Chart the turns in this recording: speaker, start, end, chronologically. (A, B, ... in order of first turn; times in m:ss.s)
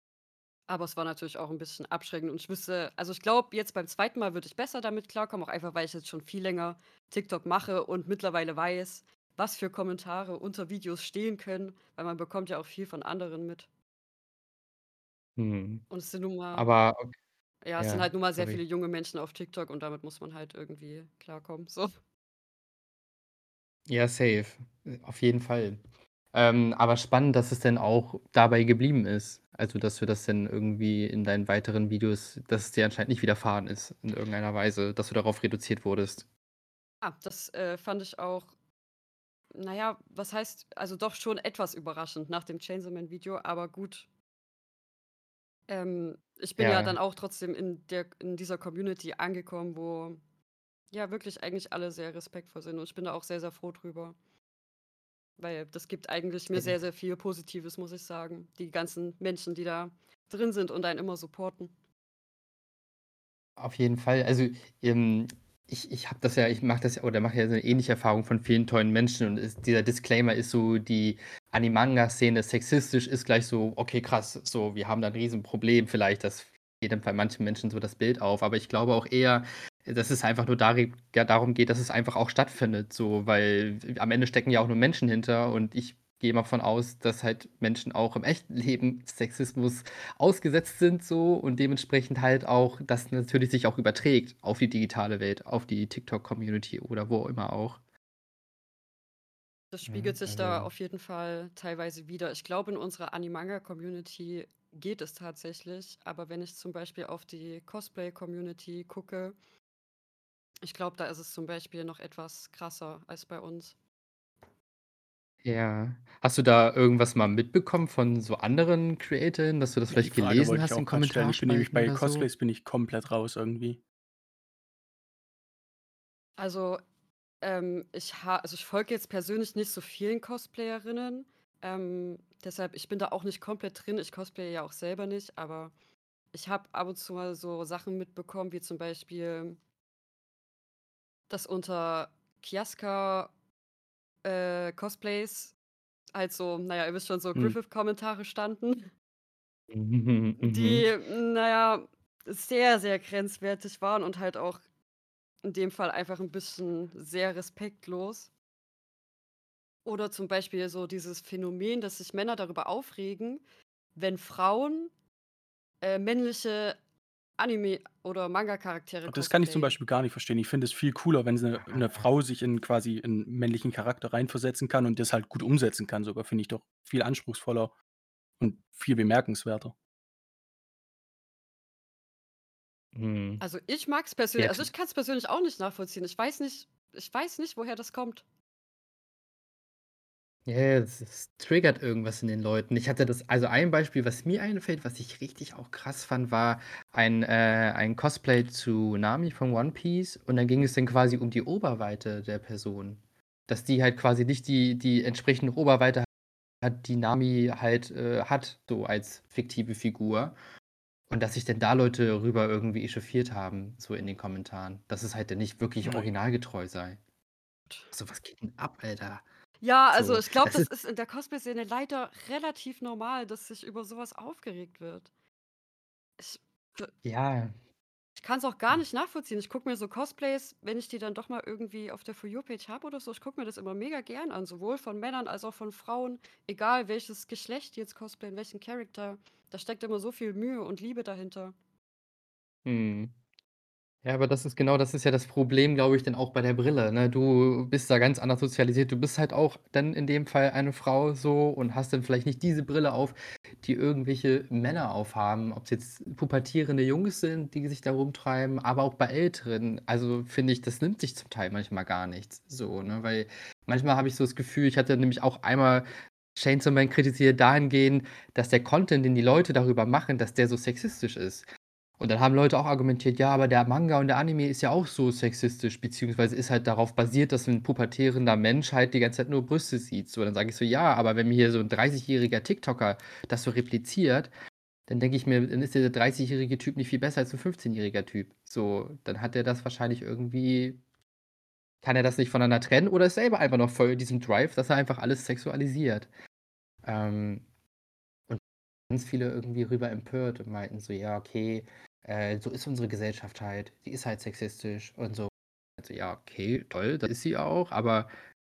0:00.7-0:13.7 A
0:15.4-0:15.8 B
0:15.9-0:16.6 A
0:16.5-0:17.1 B
0:17.6-0:21.9 A
0:17.8-0:18.6 B
0:23.9-0:25.8 B
0:26.3-0:36.2 B
0:37.0-0:38.5 A
0:39.5-0:44.1 A
0:45.7-0:50.2 A
0:46.6-0:47.0 B
0:50.9-0:54.1 A
0:55.4-1:01.7 A
1:03.6-1:37.8 B
1:39.7-1:49.3 A
1:39.9-1:40.7 B
1:50.6-1:53.7 A
1:55.4-2:02.3 B
1:59.9-2:03.8 C
2:06.4-2:06.8 A
2:07.4-2:15.7 A
2:16.3-2:19.6 A
2:21.3-2:23.3 A
2:24.2-2:25.5 A
2:26.1-2:28.9 A
2:29.7-2:30.9 B
2:30.4-2:34.6 A
2:35.4-2:38.3 A
2:39.8-2:43.4 A
2:44.0-2:44.9 A
2:45.8-2:46.8 A
2:47.4-2:49.8 A
2:49.1-2:57.7 C
2:51.7-2:52.0 B
2:58.4-2:59.7 C
3:02.9-3:03.4 B
3:03.4-3:08.2 A
3:04.4-3:04.7 B
3:10.4-3:26.1 B
3:26.6-3:30.3 B
3:31.1-3:37.0 B
3:35.8-3:36.1 C
3:37.9-3:39.2 B
3:39.6-3:45.1 A
3:39.9-3:40.7 B
3:46.2-3:46.9 A
3:47.0-3:47.5 B
3:48.2-4:01.5 A
4:02.6-4:03.2 B
4:04.0-4:31.4 B
4:32.0-4:44.3 B
4:44.9-4:50.8 B
4:51.8-4:56.1 B
4:56.8-4:57.4 B
4:58.3-5:08.1 B